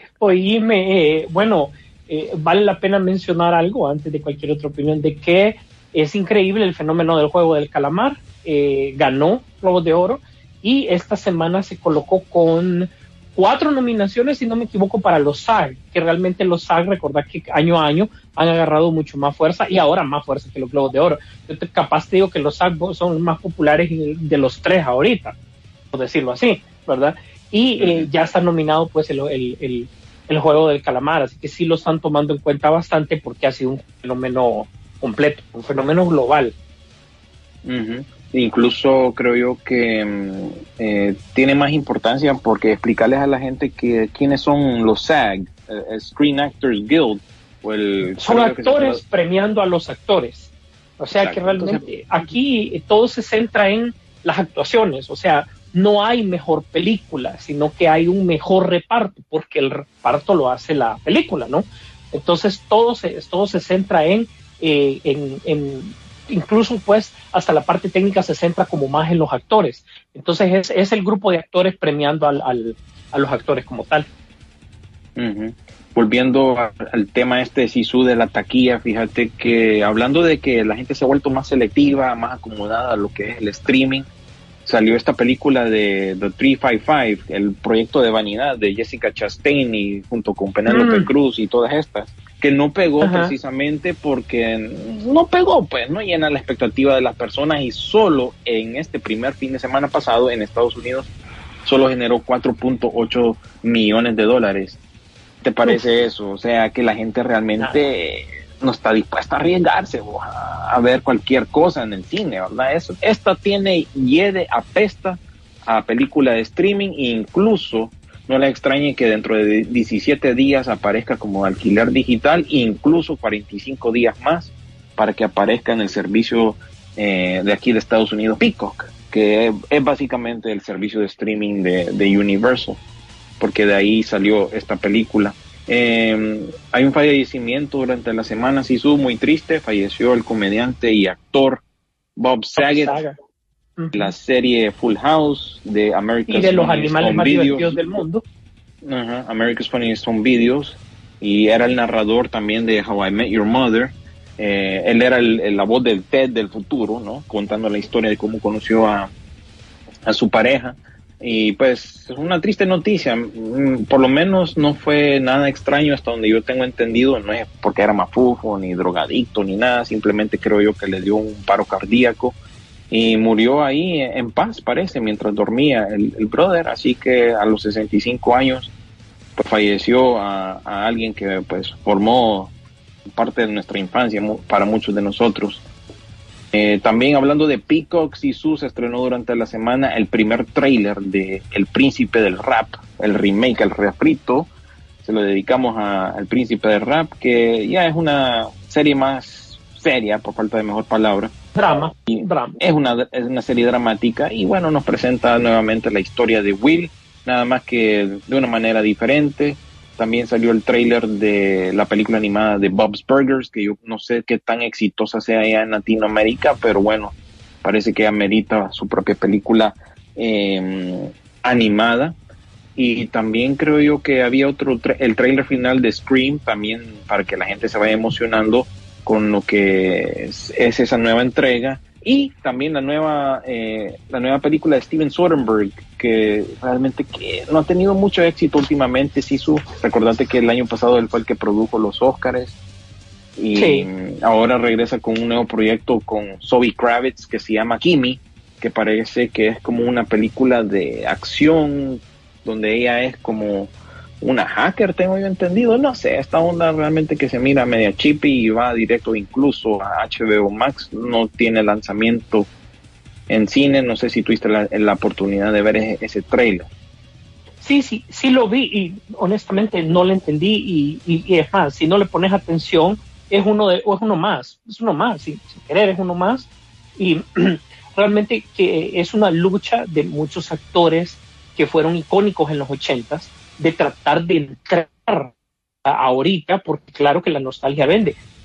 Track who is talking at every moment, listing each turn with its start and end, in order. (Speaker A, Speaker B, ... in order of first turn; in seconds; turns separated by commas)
Speaker A: 0.2-25.4, Speaker A: 25.9-36.5, Speaker B: 27.8-28.1, Speaker B: 37.6-49.0, Speaker A: 48.2-74.1, Speaker B: 51.1-51.8, Speaker B: 75.2-84.1, Speaker B: 84.7-101.1, Speaker A: 90.7-91.1, Speaker A: 93.0-93.3, Speaker B: 101.7-104.8, Speaker B: 105.4-132.8, Speaker B: 133.4-141.6, Speaker B: 142.2-143.0, Speaker A: 142.6-143.2, Speaker A: 143.8-144.1, Speaker B: 143.9-147.8, Speaker A: 146.3-148.2, Speaker B: 148.8-159.1, Speaker B: 160.1-172.4, Speaker B: 172.9-178.7, Speaker B: 179.4-182.5, Speaker B: 183.1-185.6, Speaker B: 186.5-194.5, Speaker B: 195.0-201.3, Speaker A: 201.6-202.6, Speaker B: 202.1-222.2, Speaker B: 222.8-242.6, Speaker B: 243.4-262.5, Speaker A: 243.6-243.9, Speaker B: 263.3-266.7, Speaker A: 267.6-285.3, Speaker A: 285.9-288.2